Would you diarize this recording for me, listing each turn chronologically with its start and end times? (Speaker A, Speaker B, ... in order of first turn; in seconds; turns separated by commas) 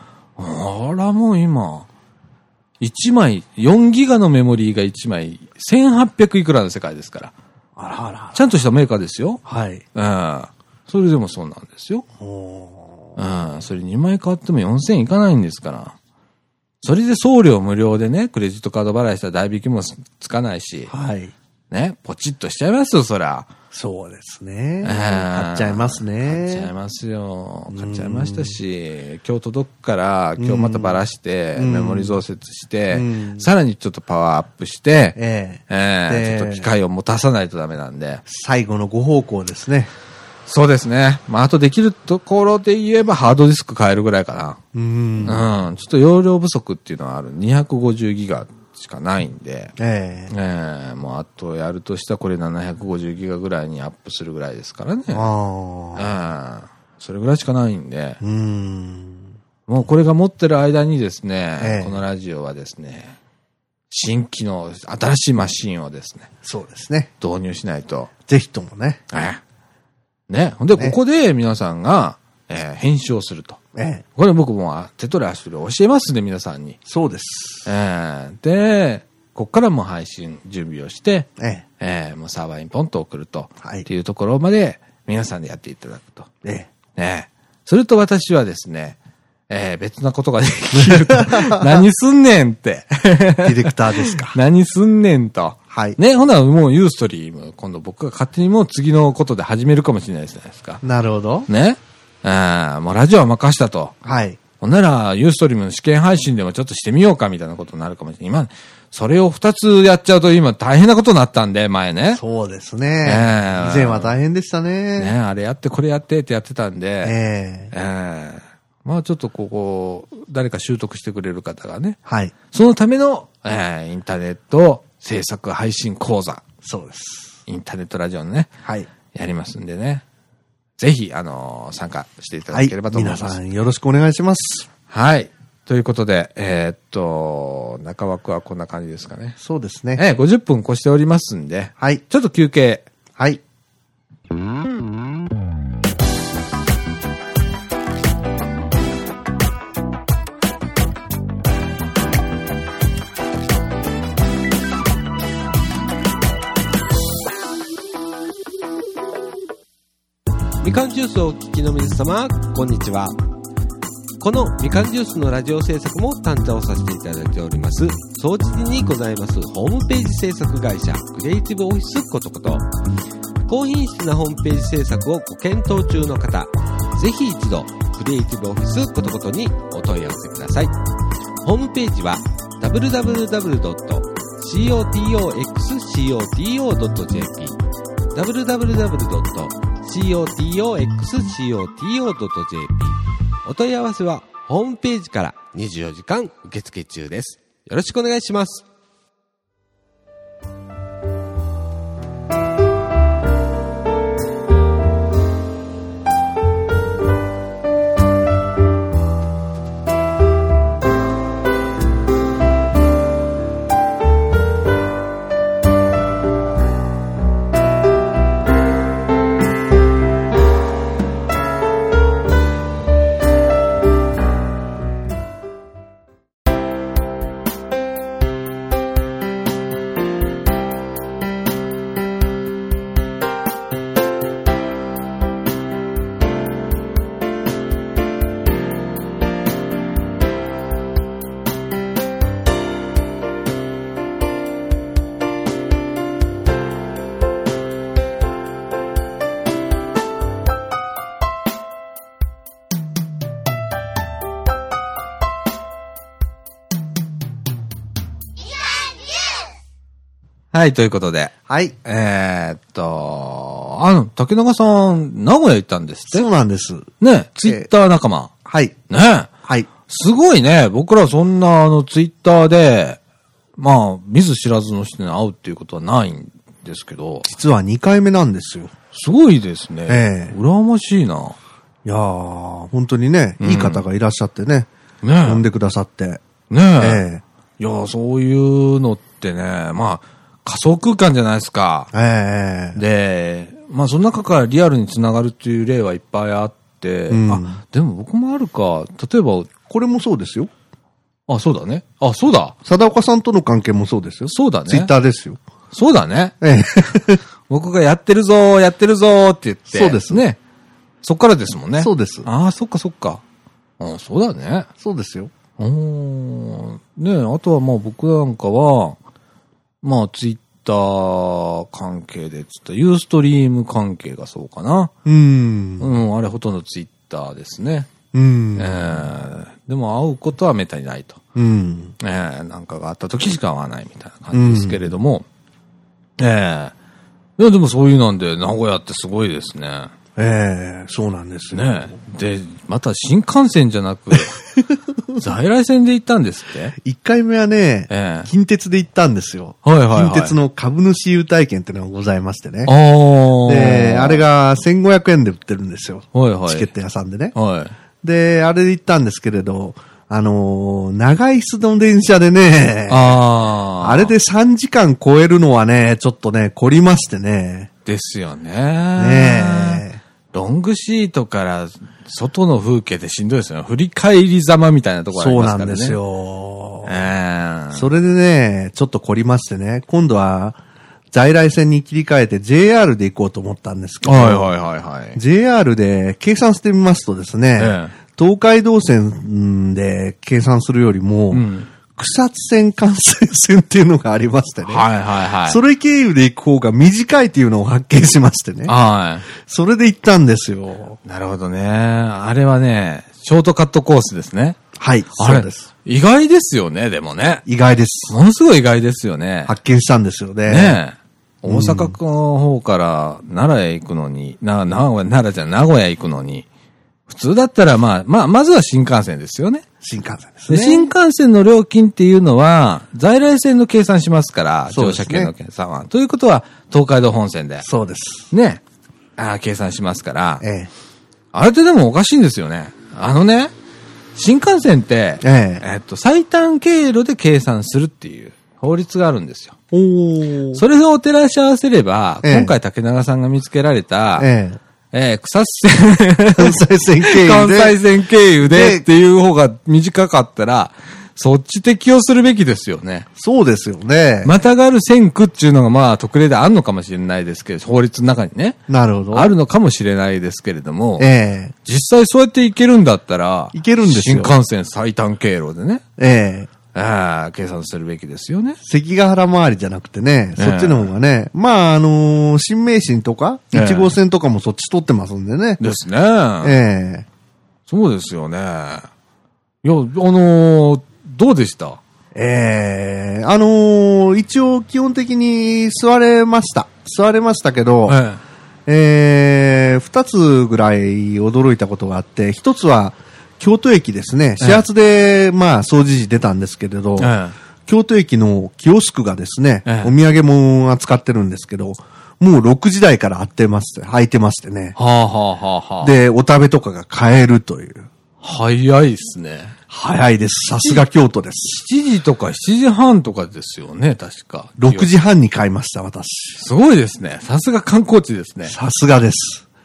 Speaker A: 0.4-1.9, Speaker A: 2.8-7.3, Speaker B: 7.8-8.4, Speaker A: 8.3-9.4, Speaker B: 9.4-9.8, Speaker A: 9.9-12.1, Speaker B: 12.2-13.2, Speaker A: 13.2-15.9, Speaker A: 16.8-20.9, Speaker B: 20.9-21.3, Speaker A: 21.7-23.5, Speaker B: 23.7-26.7, Speaker A: 24.8-35.2, Speaker B: 27.7-28.6, Speaker B: 30.4-31.0, Speaker B: 31.6-32.2, Speaker B: 32.9-33.5, Speaker B: 35.2-36.7, Speaker A: 35.7-38.2, Speaker B: 38.3-39.9, Speaker A: 40.5-44.6, Speaker B: 44.7-45.5, Speaker A: 45.2-49.7, Speaker B: 49.8-50.3, Speaker A: 50.3-55.3, Speaker B: 55.1-56.1, Speaker A: 56.0-58.2, Speaker B: 58.2-59.3, Speaker A: 59.7-63.2, Speaker B: 61.6-62.0, Speaker A: 63.9-66.3, Speaker B: 66.4-67.1, Speaker A: 67.2-68.1, Speaker B: 68.3-69.0, Speaker A: 69.1-69.4, Speaker A: 70.3-73.6, Speaker B: 73.8-74.0, Speaker A: 74.2-76.8, Speaker B: 76.9-77.7, Speaker A: 77.7-81.3, Speaker B: 81.4-81.7, Speaker A: 81.8-86.3, Speaker B: 83.6-83.9, Speaker B: 86.4-86.7, Speaker A: 87.0-89.0, Speaker A: 89.5-100.8, Speaker B: 90.7-91.8, Speaker B: 93.4-94.4, Speaker B: 95.7-96.0, Speaker B: 100.8-101.5, Speaker A: 101.5-104.0, Speaker B: 104.0-104.4, Speaker A: 104.6-112.2, Speaker B: 112.1-115.1, Speaker A: 113.0-114.1, Speaker A: 115.0-117.2, Speaker B: 117.0-117.7, Speaker A: 117.7-122.0, Speaker B: 122.1-122.3, Speaker A: 122.5-126.4, Speaker B: 126.6-127.4, Speaker A: 127.5-128.5, Speaker A: 129.1-130.0, Speaker A: 130.8-133.4, Speaker B: 132.5-134.7, Speaker A: 134.9-139.4, Speaker B: 139.4-140.0, Speaker A: 140.0-142.9, Speaker B: 143.2-143.4, Speaker C: 160.6-163.2, Speaker C: 164.2-172.7, Speaker C: 173.5-180.7, Speaker C: 181.4-187.6, Speaker C: 188.1-198.7, Speaker A: 260.5-261.3, Speaker B: 261.5-261.8, Speaker A: 261.9-266.3, Speaker B: 266.1-266.9, Speaker A: 267.0-268.3, Speaker B: 268.4-268.8, Speaker A: 268.9-269.3, Speaker A: 269.9-273.0, Speaker A: 273.6-277.3, Speaker B: 277.3-278.7, Speaker A: 278.9-281.4, Speaker B: 279.9-280.4, Speaker B: 281.9-284.7, Speaker A: 283.4-283.8, Speaker A: 285.0-285.4, Speaker B: 285.2-286.2, Speaker A: 286.5-287.0, Speaker B: 286.8-287.2, Speaker A: 287.6-291.9, Speaker B: 291.9-292.8, Speaker A: 292.7-299.5, Speaker B: 297.1-297.6, Speaker B: 299.7-300.5, Speaker A: 301.3-302.6, Speaker B: 302.6-305.4, Speaker A: 304.3-304.9, Speaker A: 305.7-306.3, Speaker B: 306.4-307.2, Speaker A: 307.5-310.4, Speaker B: 309.7-310.2, Speaker A: 311.0-313.2, Speaker B: 311.8-312.3, Speaker A: 313.8-314.7, Speaker B: 314.8-315.3, Speaker A: 315.6-319.0, Speaker A: 319.8-324.9, Speaker B: 325.1-325.9, Speaker A: 325.8-327.9, Speaker B: 328.1-329.1, Speaker A: 328.6-331.2, Speaker B: 331.4-331.9, Speaker A: 332.0-335.3, Speaker B: 334.3-334.8, Speaker A: 336.2-336.7, Speaker A: 337.4-339.9, Speaker B: 340.2-342.0, Speaker A: 341.5-344.4, Speaker A: 345.2-346.8, Speaker B: 346.8-352.7, Speaker A: 347.9-348.3, Speaker A: 349.6-350.4, Speaker A: 352.7-354.2, Speaker B: 353.4-357.3, Speaker A: 356.1-356.7, Speaker A: 357.4-357.7, Speaker B: 358.0-363.2, Speaker A: 362.9-364.1, Speaker B: 363.8-367.7, Speaker A: 367.9-376.0, Speaker B: 369.0-370.0, Speaker B: 375.1-377.0, Speaker A: 376.9-377.9, Speaker B: 377.7-380.6, Speaker B: 381.1-384.5, Speaker A: 384.0-385.2, Speaker B: 385.2-394.9, Speaker A: 387.6-388.0, Speaker A: 391.3-391.7, Speaker A: 394.6-395.6, Speaker B: 395.4-398.7, Speaker A: 398.7-399.3, Speaker B: 399.3-401.0, Speaker A: 401.1-404.6, Speaker B: 404.8-405.7, Speaker A: 405.2-407.4, Speaker B: 407.5-408.1, Speaker A: 408.1-409.5, Speaker B: 409.5-410.8, Speaker A: 410.5-416.5, Speaker B: 411.5-412.0, Speaker A: 417.1-419.6, Speaker B: 419.8-420.9, Speaker A: 420.5-427.7, Speaker B: 424.7-425.3, Speaker B: 427.6-428.3, Speaker A: 428.3-428.6, Speaker A: 429.2-430.4, Speaker B: 430.4-430.7, Speaker A: 431.3-433.5, Speaker A: 434.1-439.6, Speaker B: 435.2-435.6, Speaker B: 439.7-440.6, Speaker A: 440.5-444.3, Speaker B: 442.2-442.5, Speaker B: 444.2-444.6, Speaker A: 444.9-453.1, Speaker B: 446.4-447.8, Speaker B: 448.4-448.9, Speaker B: 453.2-454.3, Speaker A: 454.2-458.6, Speaker B: 458.7-459.3, Speaker A: 459.1-461.1, Speaker B: 461.0-461.6, Speaker A: 461.6-465.8, Speaker B: 463.5-464.4, Speaker B: 466.0-466.5, Speaker A: 466.7-468.6, Speaker B: 468.6-475.6, Speaker A: 470.4-470.9, Speaker A: 473.5-473.9, Speaker A: 475.6-476.6, Speaker B: 476.4-477.1, Speaker A: 477.7-478.9, Speaker A: 479.6-481.8, Speaker B: 482.1-488.0, Speaker A: 487.9-488.2, Speaker B: 488.7-497.1, Speaker A: 494.4-494.6, Speaker A: 497.0-497.4, Speaker B: 497.7-504.8, Speaker A: 499.6-499.9, Speaker A: 504.8-505.9, Speaker B: 505.8-507.9, Speaker A: 508.2-509.6, Speaker B: 509.7-511.6, Speaker A: 511.6-514.9, Speaker B: 514.6-516.4, Speaker A: 516.4-518.5, Speaker B: 518.5-519.5